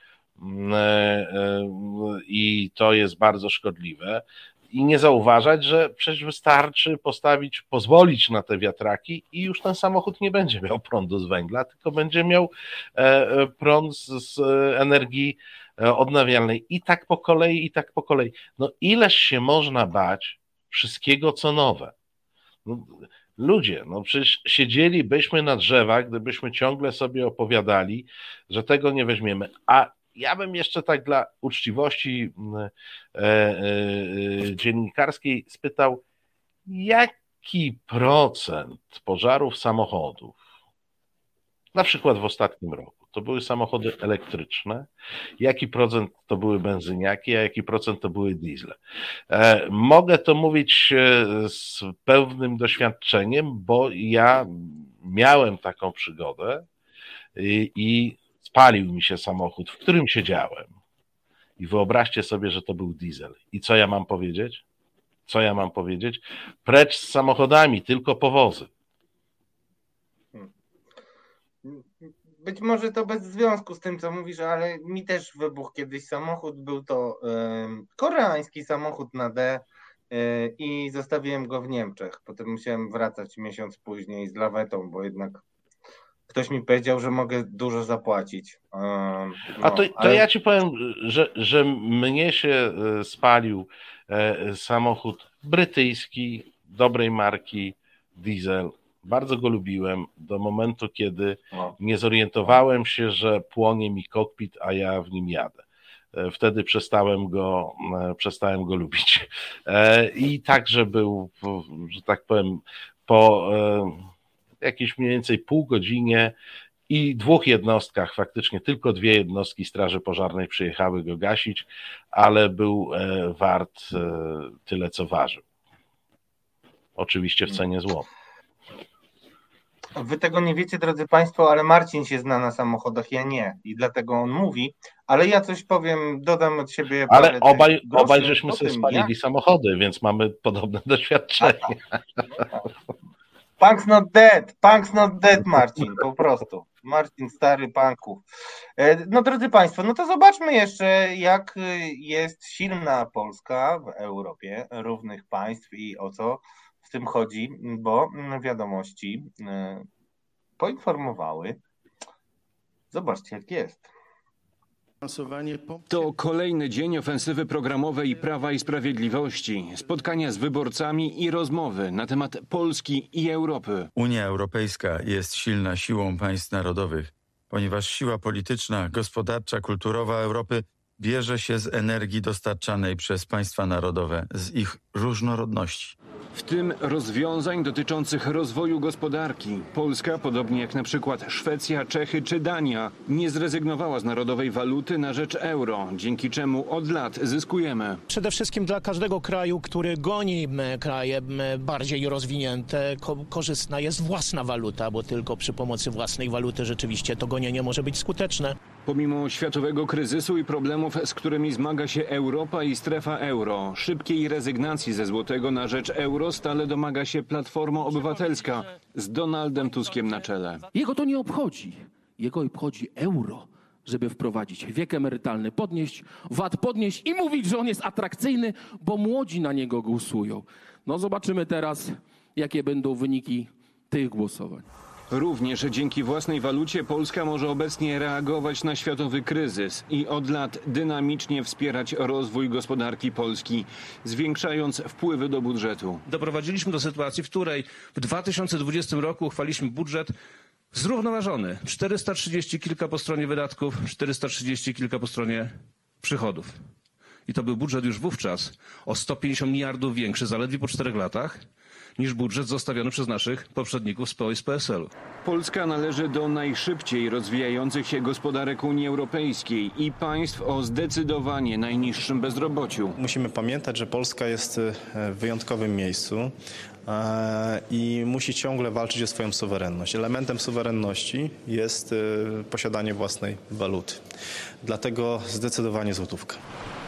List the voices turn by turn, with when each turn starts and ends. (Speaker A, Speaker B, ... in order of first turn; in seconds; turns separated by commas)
Speaker A: 0.4-21.9, Speaker A: 22.6-36.0, Speaker A: 36.7-40.4, Speaker A: 41.7-44.9, Speaker A: 45.4-48.8, Speaker A: 49.3-56.6, Speaker A: 57.4-60.7, Speaker A: 61.6-64.6, Speaker A: 65.3-68.7, Speaker B: 71.6-85.4, Speaker B: 86.3-90.2, Speaker A: 89.6-105.6, Speaker A: 106.1-114.1, Speaker A: 114.6-116.3, Speaker A: 116.9-125.4, Speaker A: 127.0-128.1, Speaker B: 129.9-139.1, Speaker A: 137.1-141.8, Speaker B: 141.4-141.7, Speaker B: 142.4-142.7, Speaker B: 143.6-148.2, Speaker B: 148.8-159.8, Speaker B: 160.6-161.6, Speaker B: 162.9-163.9, Speaker C: 165.9-173.9, Speaker D: 173.9-185.9, Speaker C: 186.3-198.0, Speaker E: 198.1-208.6, Speaker C: 208.8-220.6, Speaker F: 220.7-234.7, Speaker C: 235.1-246.0, Speaker G: 246.1-250.1, Speaker G: 250.7-256.6, Speaker G: 257.3-261.4, Speaker G: 262.0-264.9, Speaker C: 265.2-273.0, Speaker H: 273.0-276.3, Speaker H: 276.9-284.0, Speaker H: 284.6-286.4